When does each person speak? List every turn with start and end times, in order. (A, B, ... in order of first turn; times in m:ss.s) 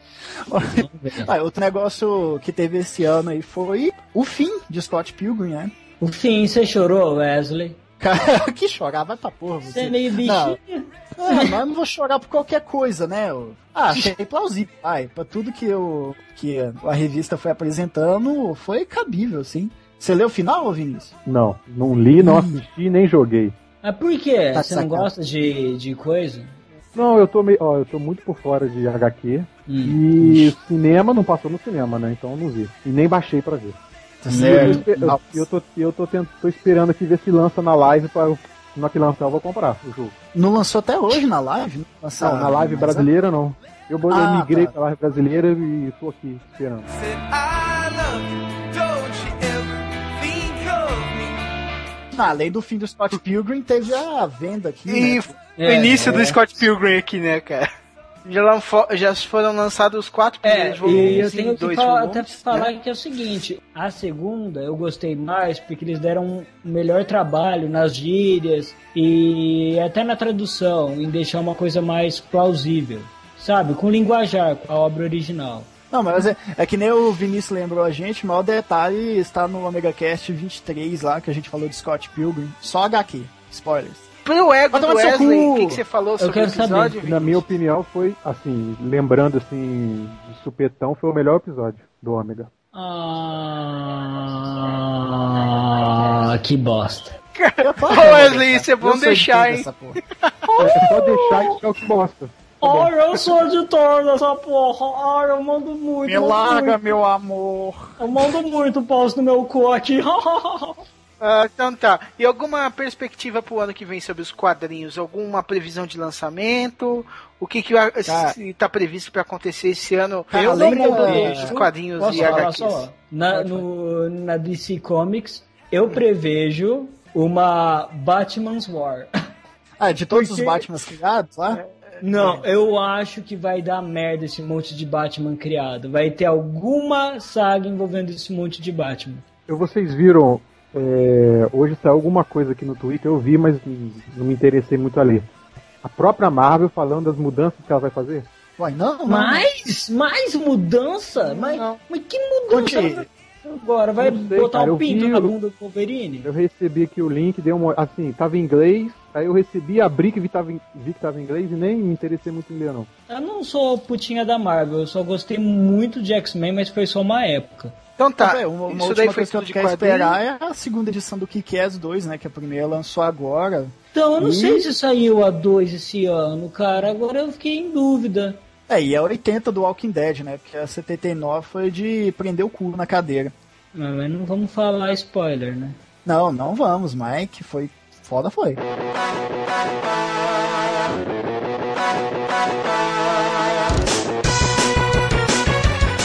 0:00.5-0:05.7 A
0:00.8-0:01.3 B
0:06.0-0:07.8 B
0:08.0-0:10.6 A
0:09.6-0:11.6 B
0:11.2-0:21.1 A
0:21.2-0:23.6 C
0:22.2-0:22.6 A
0:23.8-0:26.5 B
0:24.5-0:25.1 A
0:26.9-0:33.8 C
0:29.7-0:30.0 B
0:30.2-0:30.5 A
0:34.2-0:35.4 A
0:34.3-0:34.8 B
0:34.4-0:40.2 C
0:40.3-0:43.1 A
0:42.2-0:46.9 C
0:44.1-0:44.7 A
0:47.0-0:51.3 D
0:52.1-0:55.4 A
0:54.9-0:57.7 D
0:55.6-0:56.4 B
0:58.2-1:02.6 D
1:00.4-1:15.7 B
1:00.9-1:01.2 A
1:15.9-1:24.0 A
1:24.2-1:27.4 D
1:24.7-1:25.8 A
1:26.2-1:27.0 B
1:27.0-1:32.5 C
1:32.7-1:37.2 B
1:37.4-1:39.7 D
1:37.6-1:40.0 A
1:40.5-1:41.6 B
1:40.6-1:42.9 C
1:42.6-1:46.9 B
1:46.0-1:48.0 A
1:48.0-1:50.8 B
1:51.2-2:02.8 D
1:58.0-1:58.3 A
2:00.3-2:02.8 A
2:00.3-2:09.1 B
2:03.3-2:03.6 A
2:09.8-2:11.6 A
2:10.1-2:10.7 B
2:11.5-2:12.4 D
2:12.0-2:19.2 B
2:19.5-2:25.3 C
2:25.8-2:28.3 C
2:28.6-2:29.5 A
2:29.0-2:36.3 B
2:31.3-2:31.8 D
2:32.5-2:33.0 A
2:34.0-2:35.3 C
2:36.2-2:42.9 C
2:43.1-2:47.7 B
2:48.0-2:50.2 D
2:48.2-2:53.7 A
2:53.9-2:58.4 B
2:54.2-2:54.7 C
2:58.7-3:03.3 A
3:03.7-3:05.8 B
3:06.0-3:08.6 A